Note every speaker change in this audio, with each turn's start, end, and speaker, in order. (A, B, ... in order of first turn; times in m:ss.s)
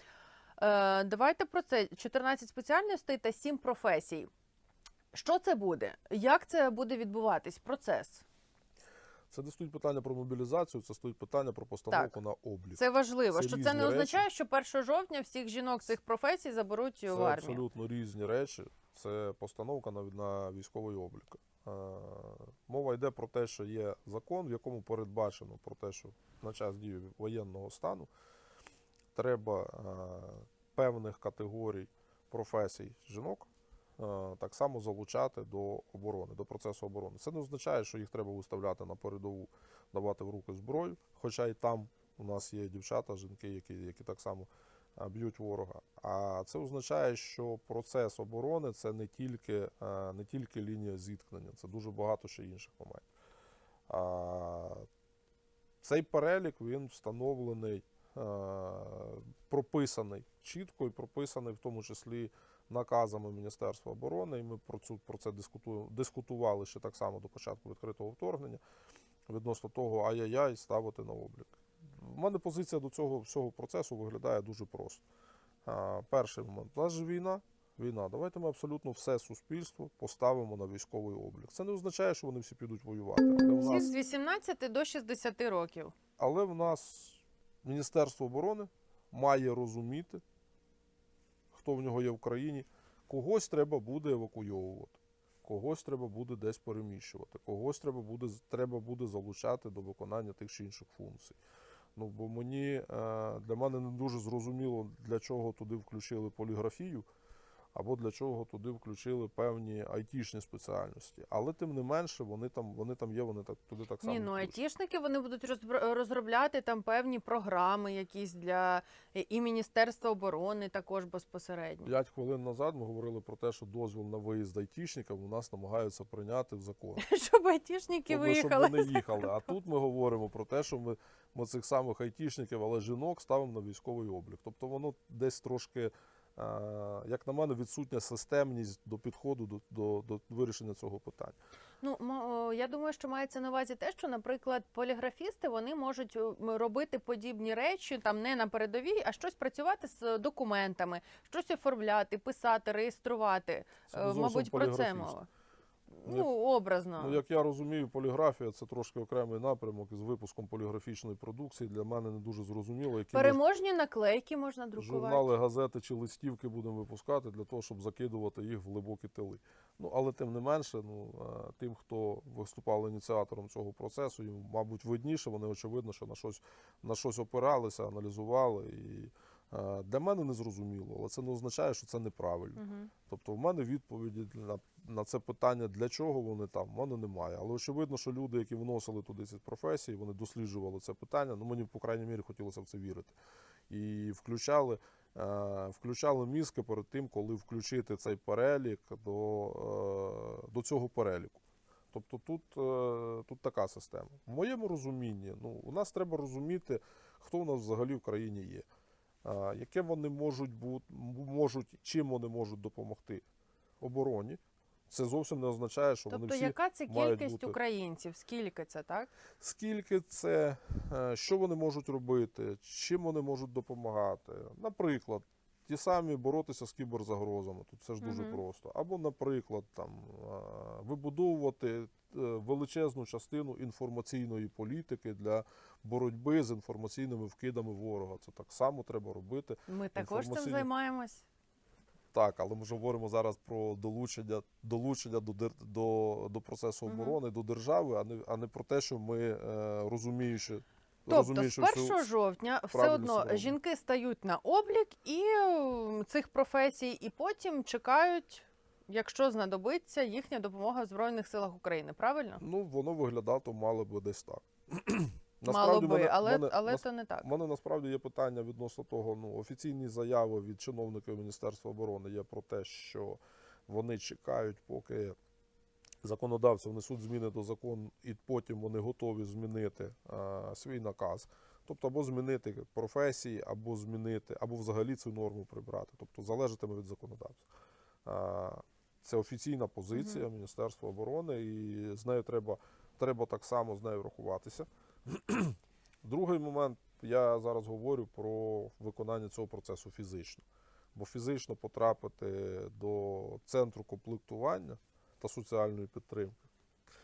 0:00.6-0:04.3 A
0:05.1-0:08.2 A
0:09.3-0:14.2 B
0:12.8-0:17.6 A
0:17.1-0:28.1 B
0:29.1-0:33.5 B
0:34.0-0:53.1 B
0:53.9-0:54.9 B
0:55.8-1:08.6 B
1:09.3-1:15.0 B
1:15.6-1:23.9 B
1:23.6-1:25.9 A
1:26.2-1:30.2 B
1:31.5-1:41.4 B
1:42.0-1:47.1 B
1:47.7-1:54.6 B
1:54.0-2:01.9 A
2:01.8-2:07.0 B
2:07.0-2:09.5 A
2:08.1-2:21.4 B
2:21.8-2:35.3 A
2:33.9-2:35.2 B
2:35.9-2:37.2 A
2:37.0-2:43.4 B
2:43.1-2:45.3 A
2:44.8-3:13.2 B
3:02.6-3:02.9 A
3:13.7-3:28.7 B
3:29.2-3:33.2 B
3:33.8-3:37.6 B
3:36.1-3:39.1 A
3:39.4-4:00.7 B
3:48.0-3:48.4 A
3:59.7-4:01.2 A
4:02.1-4:12.1 B
4:06.9-4:07.2 A
4:11.1-4:22.4 A
4:12.7-4:13.6 B
4:22.4-4:35.2 B
4:25.5-4:27.3 A
4:36.0-4:47.5 B
4:48.0-5:06.4 B
4:49.9-4:50.2 A